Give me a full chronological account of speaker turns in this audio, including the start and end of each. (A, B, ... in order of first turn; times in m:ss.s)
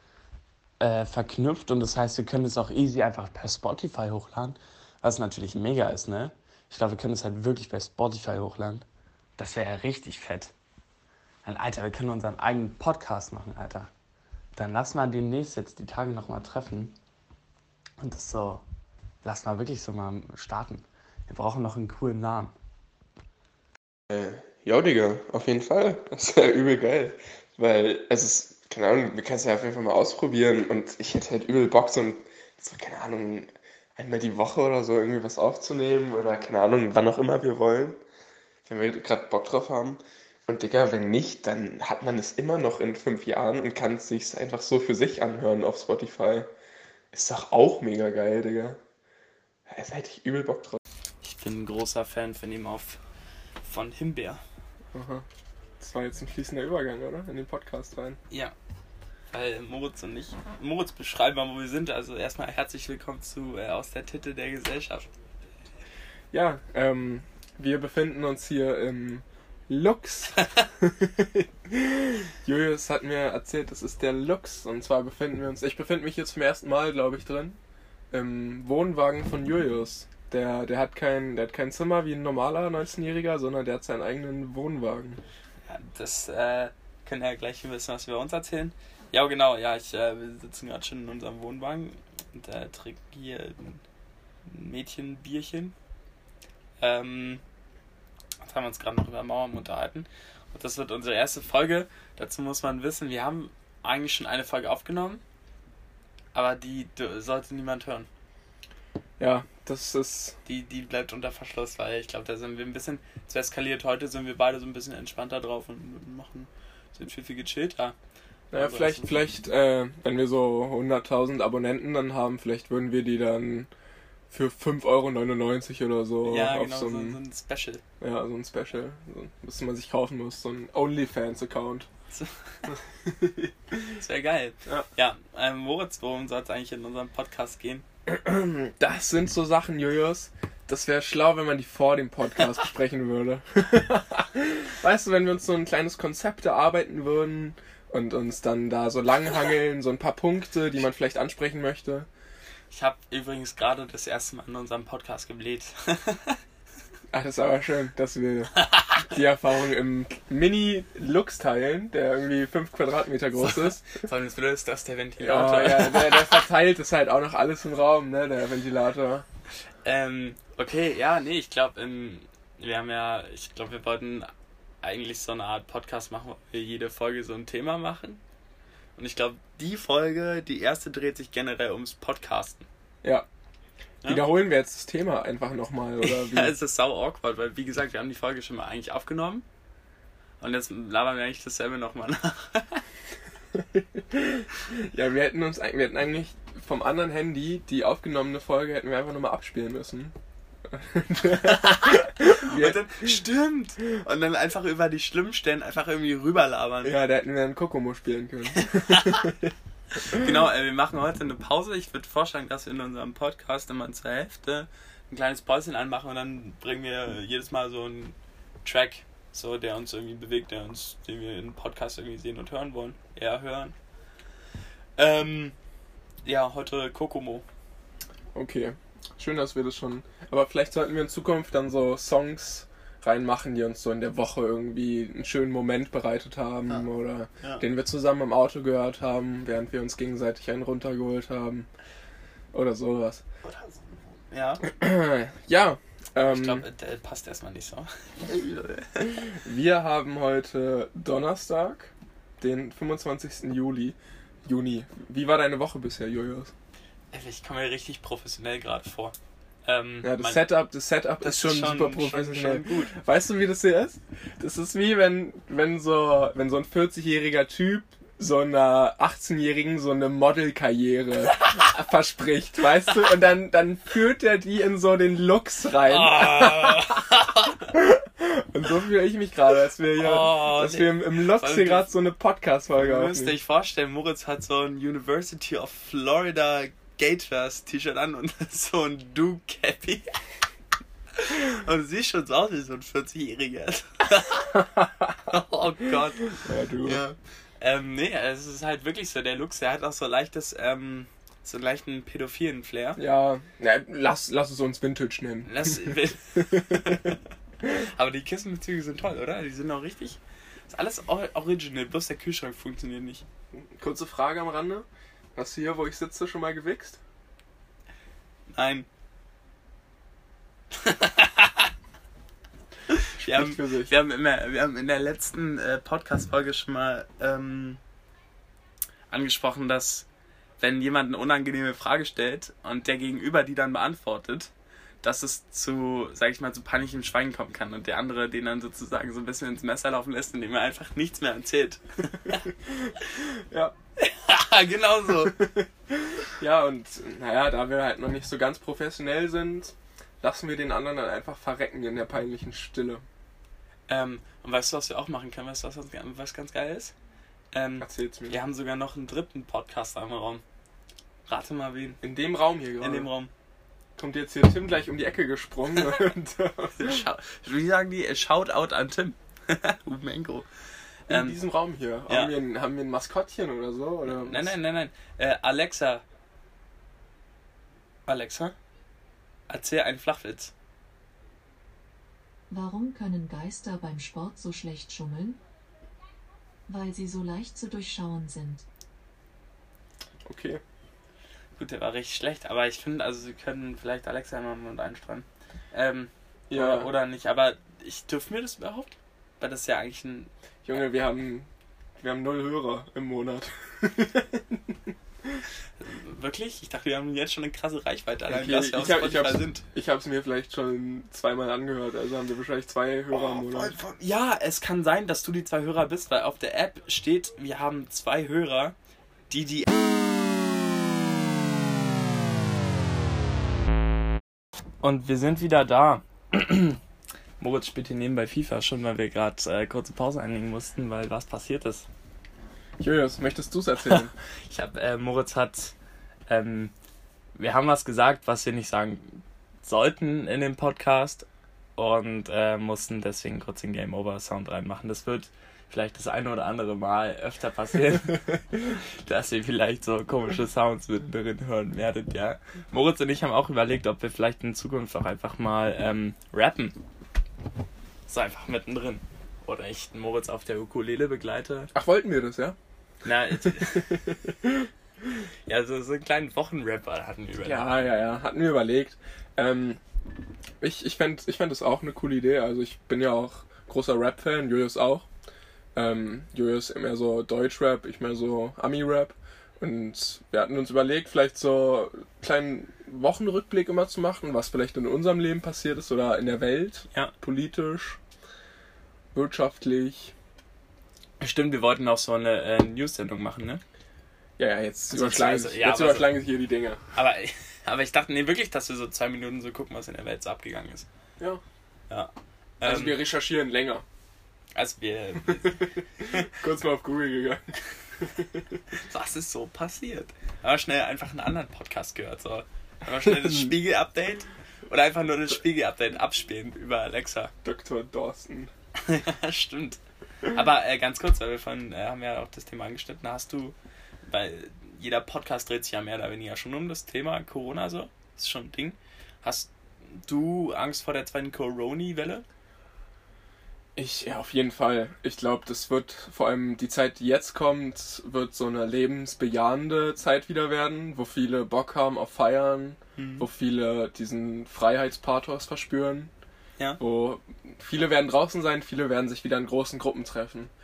0:00.8-0:08.8 A
0:09.4-0:10.5 A
0:11.4-0:13.9 A
0:14.6-0:16.9 A
0:18.0-0:18.6 A
0:19.2-0:22.5 A
0:24.1-0:38.0 B
0:38.6-0:46.5 B
0:47.1-0:48.8 B
0:49.7-0:50.8 B
0:51.2-0:53.0 A
0:53.6-0:54.4 A
0:54.9-0:55.2 B
0:55.8-0:58.2 B
0:59.3-1:05.1 A
1:06.3-1:17.6 B
1:18.1-1:25.2 B
1:25.6-1:33.8 A
1:34.4-1:35.7 A
1:36.8-1:37.4 A
1:38.4-1:45.2 A
1:46.3-1:48.1 A
1:49.2-1:50.4 B
1:50.4-1:57.9 A
1:58.5-2:03.7 B
1:58.5-1:59.2 A
2:04.3-2:07.2 B
2:06.2-2:07.8 A
2:08.0-2:11.9 B
2:12.1-2:12.7 A
2:12.7-2:13.9 B
2:13.9-2:17.8 A
2:18.0-2:32.1 B
2:32.7-2:36.4 A
2:37.1-2:44.0 B
2:43.4-2:46.4 A
2:45.2-2:49.2 B
2:49.8-2:54.3 A
2:54.8-2:58.2 A
2:59.0-3:02.7 A
3:04.0-3:06.5 B
3:06.0-3:09.4 A
3:10.4-3:12.8 A
3:13.5-3:20.1 B
3:20.6-3:23.0 B
3:21.4-3:26.9 A
3:26.8-3:29.5 B
3:28.6-3:29.3 A
3:30.0-3:43.7 A
3:45.0-3:45.5 A
3:46.2-3:47.4 A
3:48.3-4:01.7 B
4:02.5-4:03.2 B
4:03.4-4:04.7 A
4:04.6-4:06.6 B
4:06.2-4:09.3 A
4:09.3-4:16.5 B
4:17.1-4:20.5 A
4:20.0-4:37.0 B
4:21.2-4:23.0 A
4:35.9-4:37.7 A
4:37.7-4:43.3 B
4:40.0-4:41.9 A
4:42.8-4:50.2 A
4:51.2-4:54.6 A
4:55.2-5:03.0 A
4:56.3-4:57.0 B
5:03.0-5:07.1 B
5:05.4-5:13.2 A
5:13.5-5:17.0 B
5:18.5-5:18.9 A
5:20.8-5:21.7 A
5:22.9-5:27.8 A
5:23.2-5:23.9 B
5:29.1-5:30.0 A
5:30.6-5:42.4 A
5:42.3-5:43.7 B
5:44.0-5:45.4 A
5:45.3-5:53.0 B
5:53.9-5:56.9 A
5:57.5-6:00.4 A
5:57.8-5:58.4 B
6:01.3-6:02.0 A
6:02.0-6:03.1 B
6:02.8-6:03.3 A
6:04.0-6:07.0 B
6:06.8-6:10.5 A
6:11.1-6:14.5 B
6:11.1-6:11.4 A
6:12.1-6:12.3 A
6:14.0-6:16.0 A
6:18.1-6:18.6 A
6:19.5-6:20.5 A
6:22.5-6:25.4 C
6:26.7-6:28.6 C
6:30.2-6:30.6 B
6:31.6-6:40.3 A
6:36.5-6:36.9 B
6:40.6-6:45.4 B
6:45.8-6:49.6 A
6:48.3-6:53.8 B
6:53.1-6:58.7 A
6:59.3-7:00.5 A
7:04.8-7:06.8 A
7:07.4-7:11.9 A
7:12.8-7:14.1 B
7:14.5-7:15.7 A
7:16.3-7:16.7 A
7:17.4-7:21.2 A
7:21.8-7:36.8 A
7:38.1-7:41.7 A
7:41.7-7:42.6 B
7:43.0-7:44.0 A
7:43.4-7:45.2 B
7:45.5-7:47.7 A
7:47.4-7:49.8 B
7:50.6-7:55.0 B
7:55.7-8:08.0 B
8:09.1-8:10.1 B
8:11.2-8:13.6 A
8:14.4-8:16.8 B
8:14.9-8:16.2 A
8:16.9-8:20.9 A
8:21.9-8:23.0 A
8:22.6-8:23.8 B
8:24.6-8:26.3 A
8:26.0-8:28.4 B
8:28.7-8:37.3 A
8:33.0-8:33.5 B
8:37.4-8:38.5 B
8:38.8-8:43.5 A
8:44.1-8:49.5 A
8:50.0-8:52.2 A
8:53.8-9:06.1 B
9:03.0-9:03.3 A
9:06.8-9:10.5 B